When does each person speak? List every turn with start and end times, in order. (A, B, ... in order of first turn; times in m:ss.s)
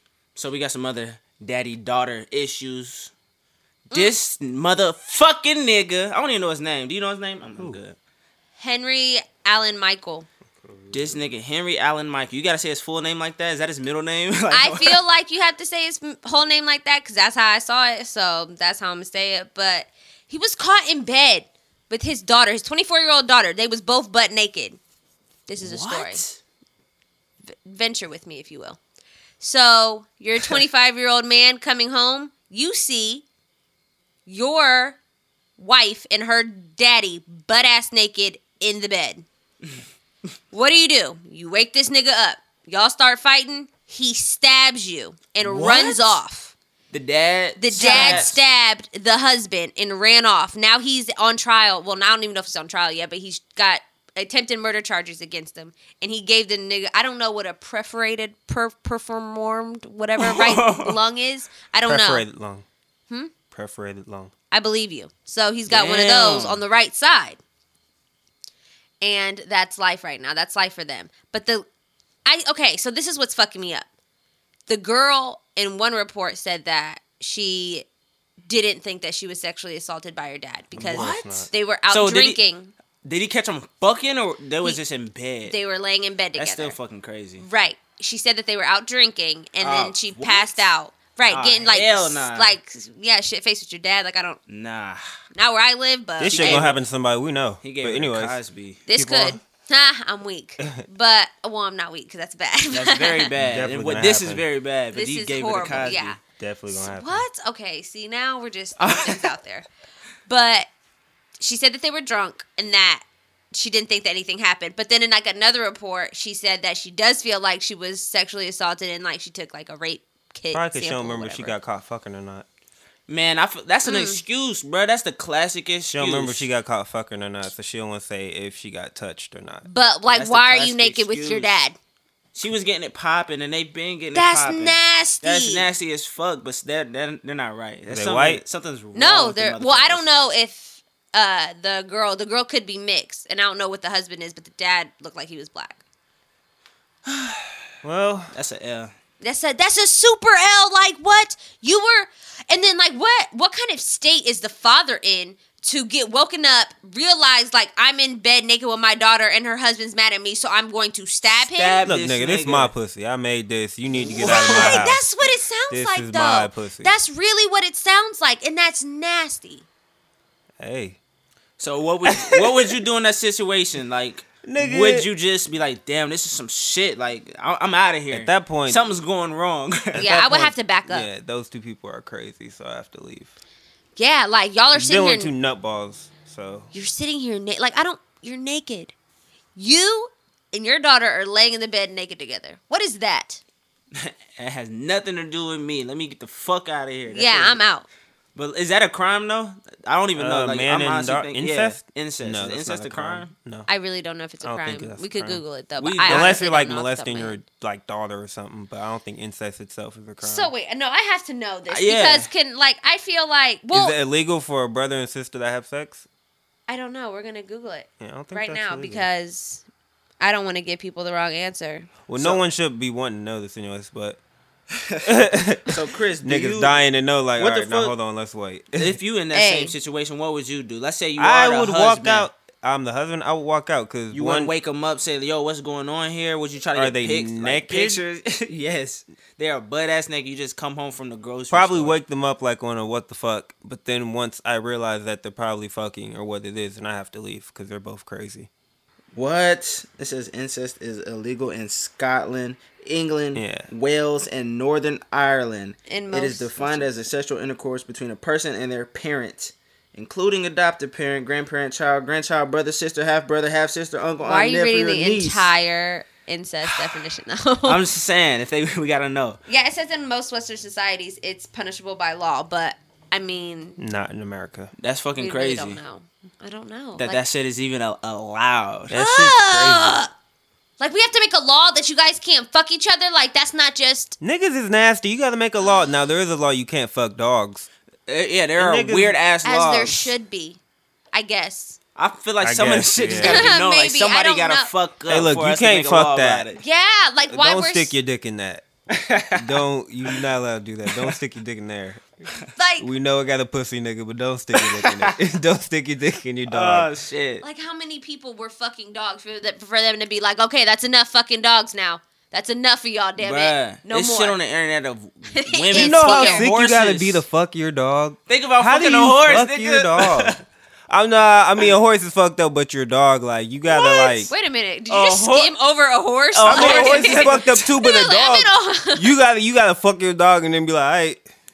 0:00.4-0:03.1 A
0:03.9-0:08.0 A
0:08.6-0:10.3 B
0:10.6-0:11.2 C
0:10.9-0:15.0 A
0:14.5-0:24.8 B
0:25.5-0:26.2 B
0:25.6-0:26.4 A
0:27.5-0:28.8 B
0:29.4-0:33.2 B
0:34.3-0:35.0 B
0:35.6-0:39.2 B
0:40.5-0:46.5 B
0:45.4-0:46.2 A
0:46.9-0:48.4 A
0:47.6-1:02.3 B
0:47.8-0:48.4 C
1:00.2-1:01.0 A
1:01.8-1:02.7 C
1:03.5-1:04.3 C
1:04.5-1:07.4 B
1:05.7-1:06.6 A
1:09.0-1:11.7 B
1:12.3-1:13.9 B
1:14.7-1:17.9 B
1:18.4-1:22.7 B
1:20.7-1:21.5 C
1:20.9-1:22.4 A
1:23.0-1:25.6 A
1:25.5-1:26.8 B
1:26.4-1:27.5 A
1:27.4-1:34.4 B
1:29.6-1:30.7 A
1:31.3-1:32.5 A
1:34.5-1:35.0 A
1:35.4-1:36.7 B
1:36.2-1:38.4 C
1:36.3-1:36.8 A
1:37.6-1:38.8 A
1:38.9-1:43.3 B
1:38.9-1:39.4 C
1:42.7-1:46.2 A
1:43.4-1:44.4 C
1:44.9-1:49.7 B
1:45.9-1:47.3 C
1:48.8-1:49.3 A
1:50.3-1:50.7 B
1:51.4-2:01.6 B
2:00.5-2:02.5 C
2:03.1-2:06.5 A
2:03.9-2:04.2 B
2:05.9-2:09.7 C
2:09.6-2:11.8 B
2:10.1-2:11.5 A
2:12.4-2:20.0 A
2:14.1-2:15.7 B
2:17.9-2:18.4 C
2:19.0-2:25.8 B
2:27.1-2:27.6 A
2:27.8-2:28.3 C
2:28.3-2:28.9 A
2:29.2-2:41.8 B
2:41.4-2:42.7 A
2:41.8-2:45.0 C
2:43.9-2:44.9 A
2:44.2-2:49.6 B
2:45.7-2:47.0 C
2:50.6-2:51.0 C
2:51.6-3:00.1 A
2:52.1-2:52.7 C
2:54.4-2:55.1 C
2:58.1-2:58.8 C
2:59.9-3:03.3 C
3:00.0-3:01.1 B
3:04.0-3:05.3 B
3:04.8-3:06.7 C
3:06.7-3:08.9 B
3:09.6-3:13.4 B
3:13.9-3:17.6 A
3:17.1-3:17.9 B
3:18.4-3:23.3 A
3:20.2-3:23.7 C
3:23.7-3:27.4 B
3:24.4-3:25.4 C
3:25.8-3:26.4 A
3:26.1-3:30.5 C
3:30.2-3:34.0 B
3:31.7-3:32.3 A
3:33.7-3:36.0 C
3:36.7-3:39.6 B
3:38.0-3:39.1 C
3:40.2-3:41.9 B
3:42.1-3:44.2 C
3:44.7-3:45.1 A
3:45.0-3:49.0 C
3:45.7-3:46.8 A
3:47.4-3:48.0 A
3:48.8-3:52.3 A
3:49.3-3:49.8 B
3:51.2-3:54.5 C
3:54.1-4:02.0 A
3:56.8-3:58.0 C
4:01.5-4:08.5 C
4:09.2-4:25.5 A
4:13.4-4:13.7 C
4:15.9-4:16.9 B
4:24.2-4:27.8 B
4:27.6-4:29.4 A
4:29.5-4:33.8 B
4:33.8-4:34.7 C
4:34.8-4:35.8 A
4:35.2-4:37.2 B
4:37.0-4:39.0 A
4:38.9-4:40.0 C
4:38.9-4:40.1 B
4:40.8-4:44.2 B
4:44.2-4:47.7 C
4:48.1-4:50.1 A
4:48.6-4:49.2 C
4:49.4-4:50.6 B
4:51.1-4:51.8 B
4:52.0-4:56.6 A
4:52.4-4:53.6 C
4:53.2-4:54.7 B
4:55.1-4:56.5 C
4:56.6-4:57.9 B
4:57.2-4:58.7 C
4:58.9-5:00.2 A
4:59.4-5:02.0 C
5:00.9-5:01.2 A
5:02.6-5:02.9 B
5:02.8-5:06.9 C
5:04.6-5:05.2 A
5:06.5-5:07.4 A
5:07.4-5:14.4 B
5:13.2-5:17.2 A
5:15.3-5:16.5 B
5:15.7-5:24.3 C
5:18.3-5:20.4 A
5:23.7-5:29.1 B
5:24.9-5:25.5 A
5:26.4-5:27.7 A
5:26.5-5:31.3 C